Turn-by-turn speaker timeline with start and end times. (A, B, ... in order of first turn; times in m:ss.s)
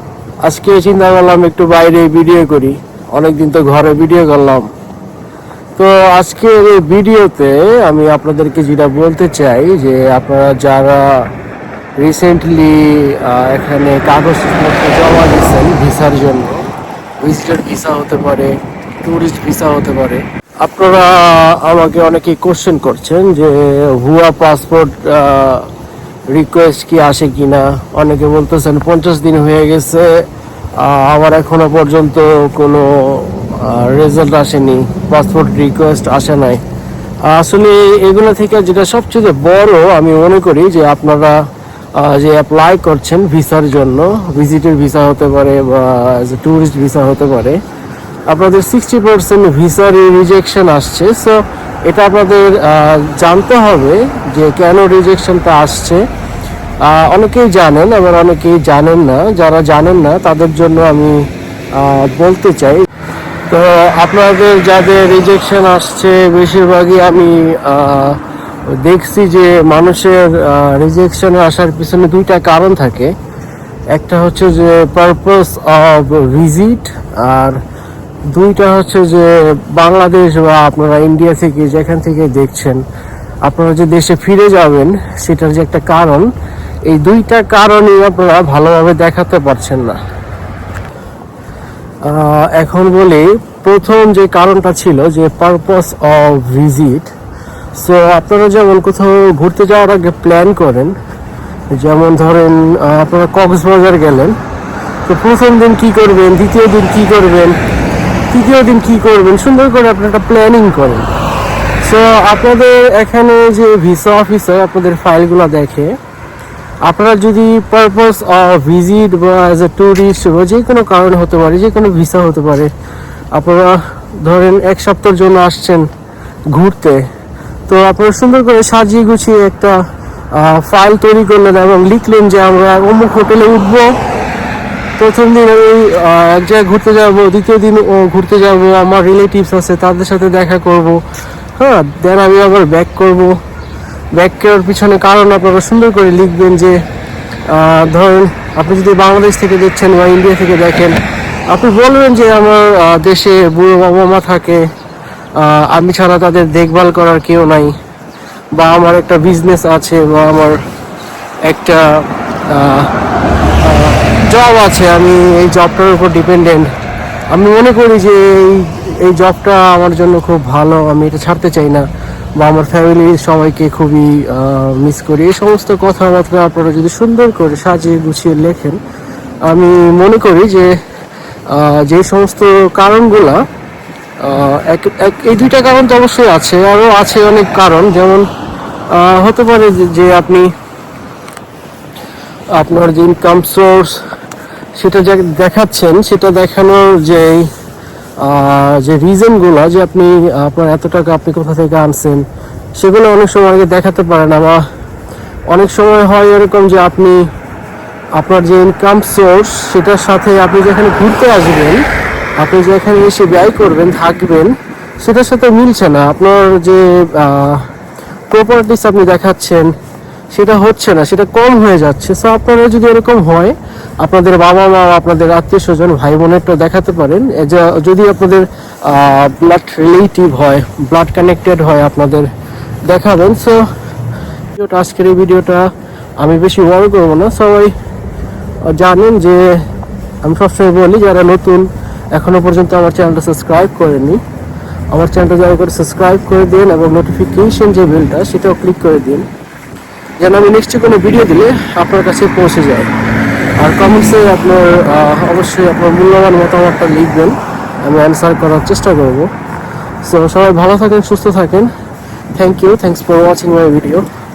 0:00.4-0:04.7 A
0:05.8-0:11.3 A
0:12.0-0:16.7 A
0:17.2-0:25.7 A
0:26.3-0:36.6 A
0:37.3-0:41.4 A
0:42.0-0:47.6 A
0:48.3-0:56.0 A
0:56.9-1:01.2 A
1:01.7-1:02.9 A
1:03.5-1:08.2 A
1:08.7-1:13.1 A
1:13.9-1:17.6 A
1:18.3-1:22.8 A
1:23.4-1:26.3 A
1:26.9-1:30.0 A
1:32.0-1:37.1 A
1:37.8-1:40.9 A
1:41.7-1:44.4 A
1:45.1-1:47.6 A
1:48.3-1:51.2 A
1:51.8-1:56.0 A
1:56.9-2:02.7 A
2:03.3-2:05.9 A
2:06.5-2:07.0 A
2:07.7-2:09.8 A
2:10.3-2:14.0 A
2:15.0-2:21.0 A
2:21.6-2:23.4 A
2:24.2-2:26.8 A
2:27.5-2:31.0 A
2:31.5-2:34.6 A
2:35.4-2:37.7 A
2:38.6-2:40.6 A
2:41.5-2:42.9 A
2:43.6-2:46.7 A
2:47.3-2:51.9 A
2:52.4-2:58.8 A
2:59.5-3:00.7 A
3:01.5-3:03.4 A
3:04.2-3:08.3 A
3:08.9-3:10.5 A
3:12.6-3:14.0 A
3:14.8-3:17.5 A
3:18.2-3:22.3 A
3:22.8-3:24.6 A
3:25.5-3:27.3 A
3:28.2-3:31.8 A
3:32.4-3:37.7 A
3:38.3-3:39.7 A
3:40.3-3:52.3 A
3:52.9-3:53.6 A
3:54.5-3:55.7 A
3:56.2-3:57.7 A
3:58.7-3:59.6 A
4:00.2-4:04.2 A
4:04.9-4:09.3 A
4:10.2-4:12.9 A
4:13.6-4:19.3 A
4:20.0-4:21.7 A
4:22.4-4:24.0 A